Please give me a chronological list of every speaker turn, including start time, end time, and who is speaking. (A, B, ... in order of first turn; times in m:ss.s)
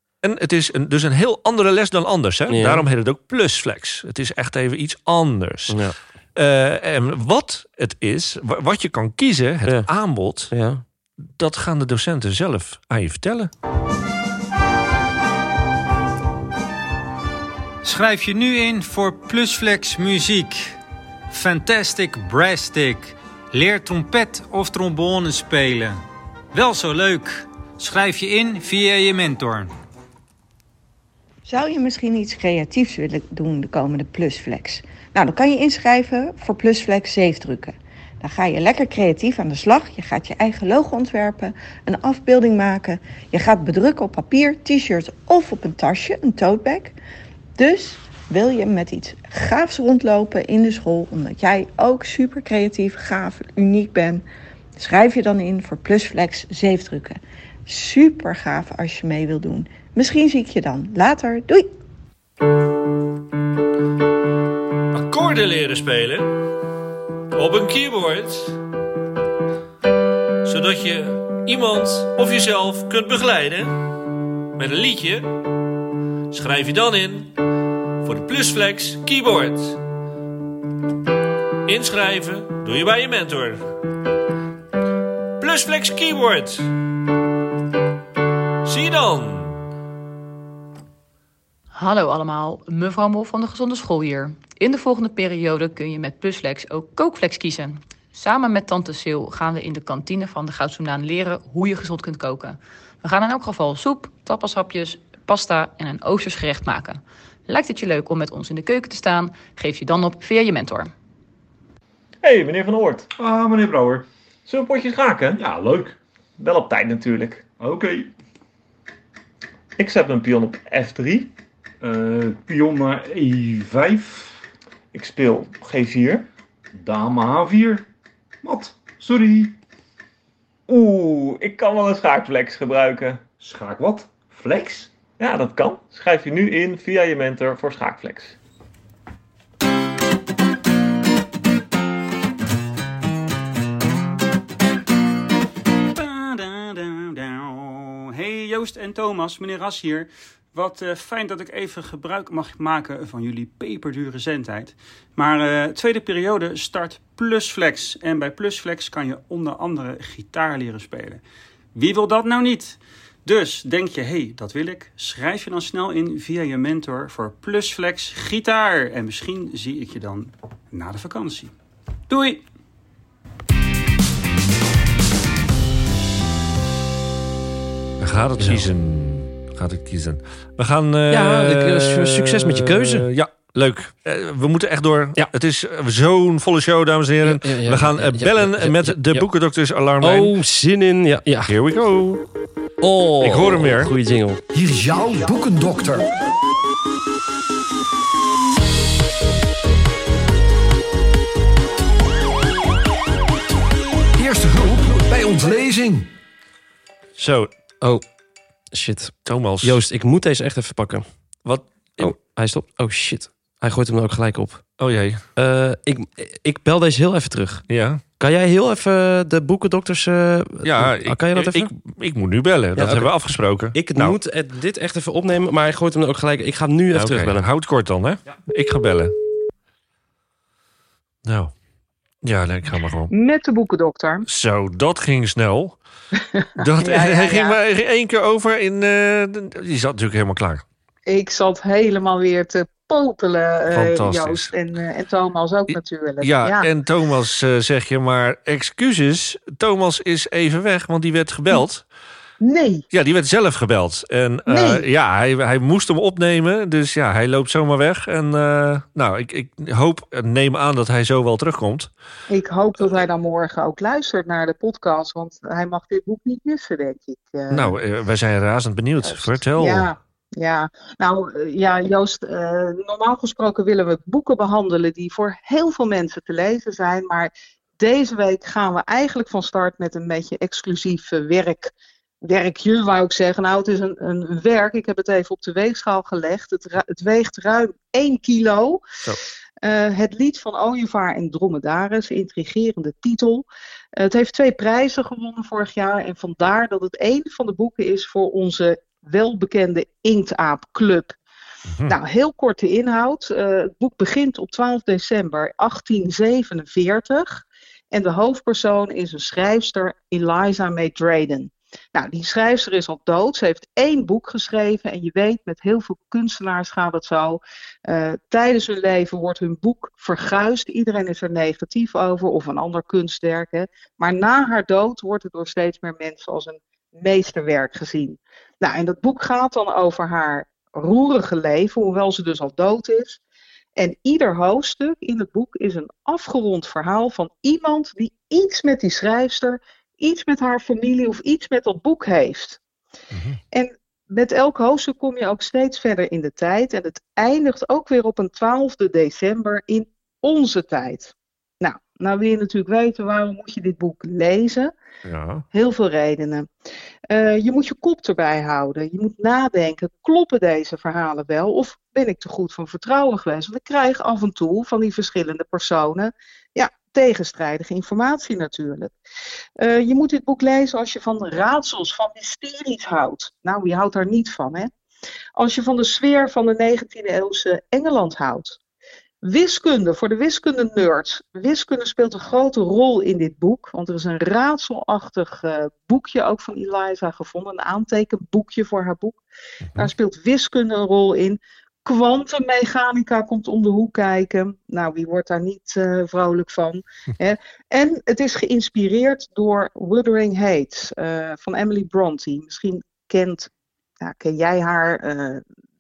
0:00.2-0:05.8 A
0:02.5-0:02.9 B
0:05.7-0:06.0 B
0:06.4-0:10.5 A
0:09.6-0:09.9 B
0:10.5-0:10.8 B
0:11.3-0:13.5 A
0:17.8-0:20.8 C
0:21.3-0:26.0 C
0:26.5-0:29.7 C
0:31.5-0:47.0 D
0:47.6-0:54.2 D
0:54.8-1:01.7 D
1:04.9-1:06.4 A
1:07.3-1:08.6 A
1:10.4-1:13.7 A
1:14.6-1:15.3 A
1:16.3-1:17.3 A
1:18.0-1:19.8 A
1:21.7-1:23.6 A
1:25.4-1:26.7 A
1:28.6-1:29.6 A
1:31.7-1:50.9 E
1:52.2-1:58.1 F
1:59.8-2:04.4 F
2:04.9-2:07.9 F
2:08.4-2:09.6 F
2:10.7-2:18.4 F
2:25.9-2:41.2 G
2:41.8-2:51.5 G
2:52.1-2:52.5 G
2:58.0-3:10.3 A
2:58.4-2:58.7 B
3:01.1-3:03.1 B
3:07.2-3:09.3 B
3:10.0-3:11.6 B
3:11.5-3:12.2 A
3:12.8-3:14.4 B
3:13.2-3:13.9 A
3:14.5-3:16.1 H
3:24.2-3:26.1 H
3:27.2-3:27.5 A
3:28.7-3:31.0 B
3:29.2-3:29.8 A
3:31.4-3:32.2 A
3:32.0-3:34.7 B
3:34.8-3:35.2 A
3:35.4-3:41.7 B
3:37.7-3:38.0 A
3:40.6-3:44.2 A
3:42.8-3:47.5 B
3:46.9-3:49.1 A
3:51.2-3:51.5 A
3:52.2-3:53.1 A
3:53.1-3:54.3 I
3:54.2-3:55.8 A
3:56.4-3:57.6 I
3:56.6-4:00.6 A
4:01.1-4:06.7 I
4:03.7-4:04.5 A
4:06.2-4:11.9 A
4:12.4-4:12.9 I
4:12.9-4:21.9 A
4:14.5-4:14.8 I
4:22.3-4:27.7 I
4:27.5-4:29.9 A
4:29.0-4:41.7 I
4:42.2-4:48.8 I
4:49.6-4:53.5 I
4:54.0-5:01.2 I
5:01.7-5:02.0 A
5:01.9-5:33.2 I
5:33.8-5:42.6 I
5:43.1-5:43.4 A
5:43.5-5:54.7 I
5:55.0-5:55.5 A
5:55.5-5:56.5 I
5:57.1-6:08.9 I
6:09.6-6:14.7 I
6:15.4-6:18.6 I
6:19.2-6:29.2 I
6:29.6-6:29.9 A
6:29.8-6:43.5 I
6:44.0-6:45.4 I